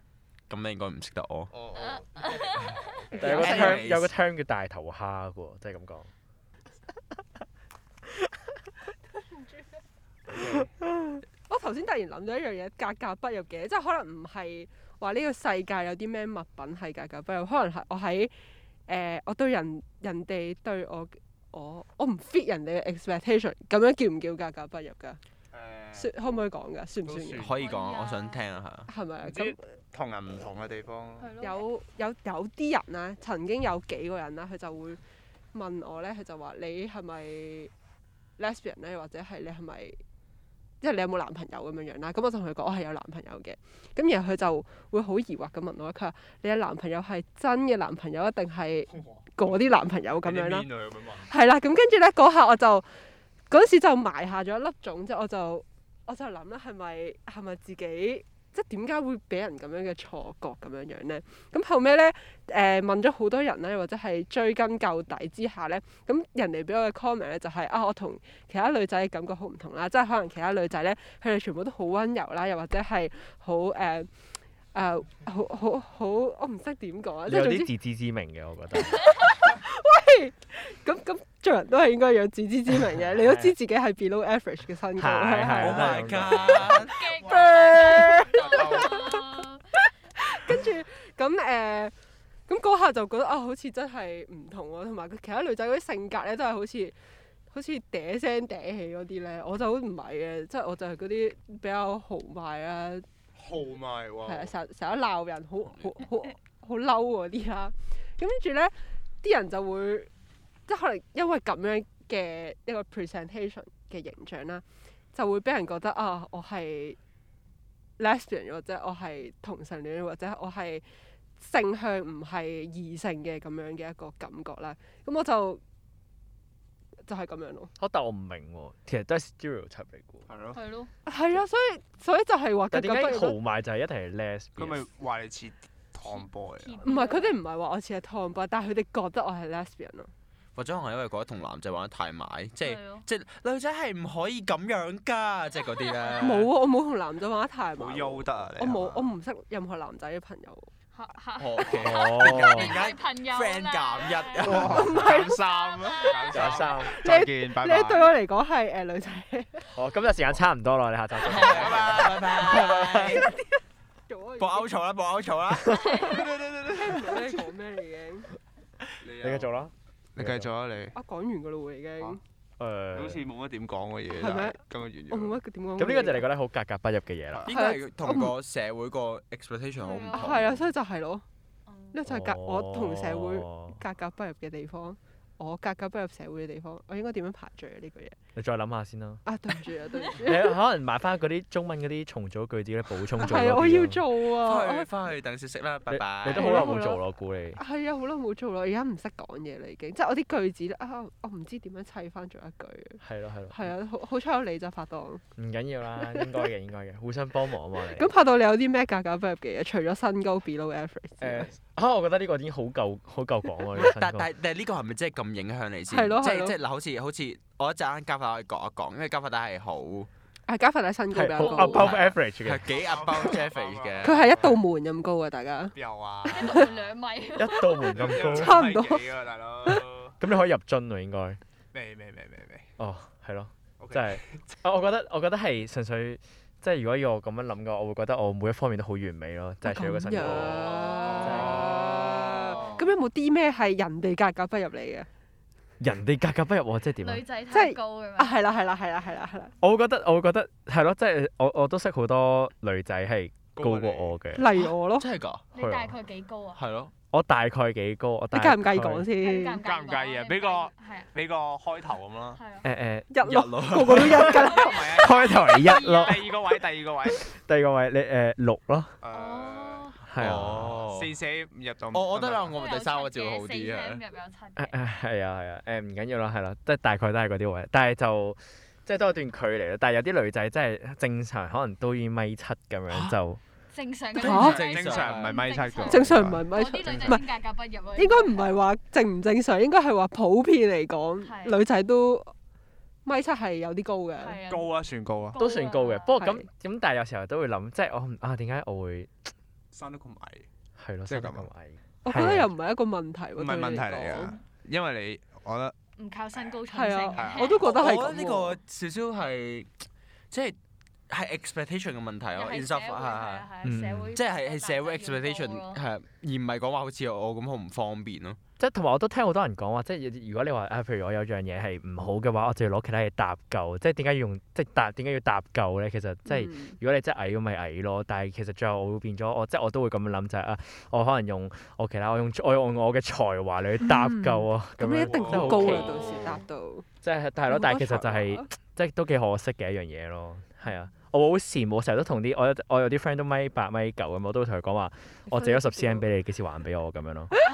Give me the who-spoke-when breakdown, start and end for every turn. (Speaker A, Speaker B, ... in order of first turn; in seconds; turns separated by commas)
Speaker A: 0.5-1.5, Speaker B: 1.5-3.3, Speaker C: 1.7-3.2, Speaker D: 3.1-3.7, Speaker E: 3.2-6.1, Speaker A: 3.2-4.1, Speaker B: 10.3-10.6, Speaker D: 11.5-18.3, Speaker D: 18.9-25.2, Speaker B: 25.5-26.1, Speaker D: 25.9-27.5, Speaker B: 27.1-27.5, Speaker A: 27.4-28.9, Speaker C: 27.6-28.4, Speaker D: 28.9-29.6, Speaker B: 29.2-31.3, Speaker C: 31.2-31.6, Speaker D: 31.4-35.0, Speaker D: 35.5-37.7, Speaker D: 38.4-40.0, Speaker D: 40.8-52.9, Speaker B: 50.2-51.3, Speaker D: 53.5-74.1, Speaker D: 74.7-77.7, Speaker E: 77.3-79.0, Speaker D: 78.8-91.9, Speaker E: 83.2-83.5, Speaker E: 85.0-86.7, Speaker A: 85.5-87.0, Speaker C: 86.5-89.6, Speaker B: 88.4-88.9, Speaker D: 92.5-97.0, Speaker D: 97.5-103.0, Speaker B: 103.4-104.5, Speaker D: 104.2-110.1, Speaker D: 110.7-114.6, Speaker D: 115.1-117.0, Speaker D: 118.0-120.8, Speaker D: 121.4-125.6, Speaker D: 127.1-127.7, Speaker E: 127.8-130.3, Speaker B: 130.3-130.6, Speaker C: 130.5-130.9, Speaker D: 131.1-133.4, Speaker E: 132.7-134.8, Speaker B: 134.6-136.8, Speaker C: 136.0-137.4, Speaker D: 136.8-140.1, Speaker A: 140.6-146.5, Speaker C: 142.6-143.1, Speaker C: 145.7-146.3, Speaker D: 146.2-150.7, Speaker B: 147.8-149.1, Speaker C: 150.9-154.7, Speaker A: 151.4-155.0, Speaker E: 151.8-152.8, Speaker B: 154.4-158.1, Speaker D: 154.5-155.4, Speaker C: 155.3-156.7, Speaker E: 156.3-157.0, Speaker D: 156.8-159.7, Speaker E: 159.7-162.2, Speaker A: 161.2-163.3, Speaker D: 161.7-163.4, Speaker D: 164.1-164.7, Speaker A: 164.4-166.4, Speaker C: 165.7-166.1, Speaker B: 166.2-167.4, Speaker D: 166.7-168.3, Speaker B: 169.0-169.5, Speaker E: 169.2-170.5, Speaker B: 170.2-170.9, Speaker D: 170.9-172.2, Speaker E: 172.6-173.2, Speaker B: 172.9-175.3, Speaker D: 174.1-174.6, Speaker D: 175.1-176.3, Speaker E: 175.8-177.5, Speaker A: 177.5-180.6, Speaker D: 177.5-178.3, Speaker C: 179.8-180.7, Speaker D: 180.1-181.2, Speaker C: 181.7-182.0, Speaker D: 181.9-188.2, Speaker E: 182.1-183.8, Speaker E: 188.4-189.2, Speaker D: 189.2-190.6, Speaker E: 190.2-194.0, Speaker D: 193.2-194.9, Speaker A: 194.3-196.7, Speaker E: 195.9-197.6, Speaker D: 196.3-197.0, Speaker D: 197.6-205.2, Speaker E: 203.0-203.7, Speaker E: 205.4-208.1, Speaker D: 206.0-206.3, Speaker D: 207.8-211.5, Speaker E: 211.2-214.2, Speaker A: 213.8-220.1, Speaker D: 215.9-216.6, Speaker D: 220.5-222.0, Speaker E: 221.1-222.7, Speaker C: 221.4-221.9, Speaker A: 221.7-224.3, Speaker B: 222.8-224.5, Speaker D: 224.0-225.7, Speaker B: 225.8-226.7, Speaker C: 226.3-228.3, Speaker D: 226.4-226.6, Speaker E: 227.4-228.6, Speaker B: 227.9-230.1, Speaker D: 228.2-229.1, Speaker E: 230.2-231.4, Speaker B: 231.7-232.7, Speaker E: 232.8-241.8, Speaker B: 233.8-234.4, Speaker D: 239.6-245.1, Speaker C: 240.8-241.6, Speaker B: 241.2-242.8, Speaker E: 245.8-247.2, Speaker C: 247.0-248.4, Speaker D: 247.5-249.5, Speaker E: 249.6-254.5, Speaker B: 253.6-254.1, Speaker D: 254.3-255.1, Speaker A: 254.6-255.4, Speaker C: 255.5-256.6, Speaker E: 255.6-255.9, Speaker A: 256.6-256.9, Speaker E: 257.1-259.1, Speaker D: 258.3-259.6, Speaker C: 259.2-261.1, Speaker B: 259.6-262.4, Speaker C: 262.3-262.7, Speaker E: 262.6-263.1, Speaker D: 263.1-265.0, Speaker A: 263.2-264.3, Speaker E: 263.9-264.4, Speaker C: 264.1-266.4, Speaker B: 264.5-267.2, Speaker E: 265.0-266.3, Speaker E: 267.1-269.0, Speaker B: 269.0-269.9, Speaker C: 269.1-270.0, Speaker E: 270.1-270.8, Speaker A: 270.2-271.1, Speaker B: 270.7-272.6, Speaker A: 271.9-274.0, Speaker C: 272.5-274.8, Speaker E: 274.6-283.4, Speaker A: 282.9-283.2, Speaker C: 283.7-288.5, Speaker D: 284.2-284.6, Speaker A: 284.2-285.4, Speaker B: 284.5-286.4, Speaker D: 285.9-287.3, Speaker D: 288.0-292.3, Speaker C: 291.2-291.6, Speaker D: 293.1-294.4, Speaker C: 294.2-296.1, Speaker B: 294.5-295.3, Speaker E: 295.4-299.3, Speaker D: 296.2-296.5, Speaker B: 299.7-300.5, Speaker E: 300.8-302.5, Speaker B: 301.1-301.5, Speaker D: 302.0-304.4, Speaker B: 303.4-305.8, Speaker C: 306.0-307.8, Speaker D: 306.7-308.6, Speaker B: 307.2-307.5, Speaker A: 307.6-309.7, Speaker A: 310.3-310.6, Speaker A: 311.1-313.5, Speaker C: 312.3-315.8, Speaker E: 313.6-314.1, Speaker A: 314.1-318.4, Speaker E: 318.6-336.2, Speaker D: 326.3-326.8, Speaker D: 333.8-336.9, Speaker B: 335.1-335.9, Speaker E: 337.0-347.3, Speaker D: 337.5-338.5, Speaker D: 345.3-346.1